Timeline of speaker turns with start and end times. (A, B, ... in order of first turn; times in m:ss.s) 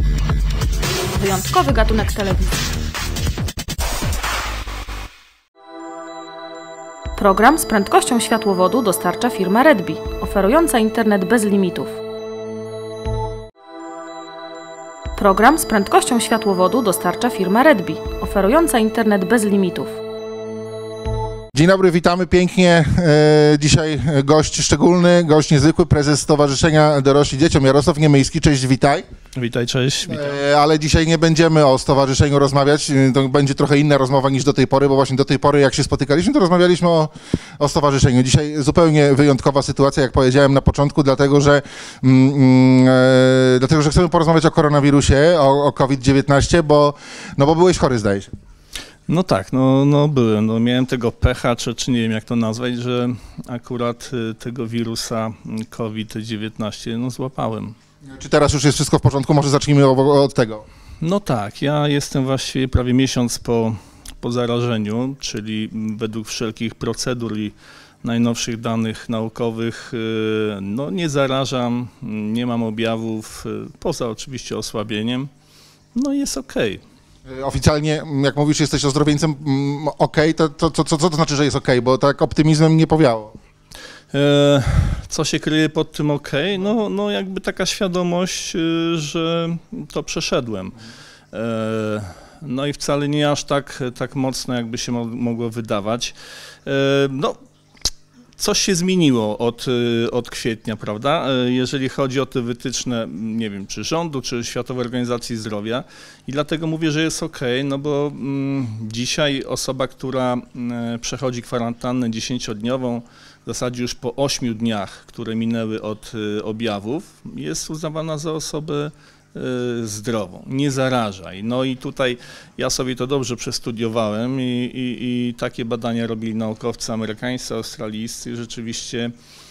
0:01.1-0:02.6 A
0:07.2-0:12.0 A
0:15.2-0:20.0 A
0:21.5-0:29.1 B
0:29.4-0:30.4 C
0:30.1-0:48.3 B
0:49.1-0:57.8 C
0:58.0-1:00.6 B
1:01.0-1:15.3 C
1:15.9-1:16.8 C
1:17.3-1:23.4 B
1:24.1-1:30.8 C
1:31.3-1:37.4 C
1:38.4-2:09.1 C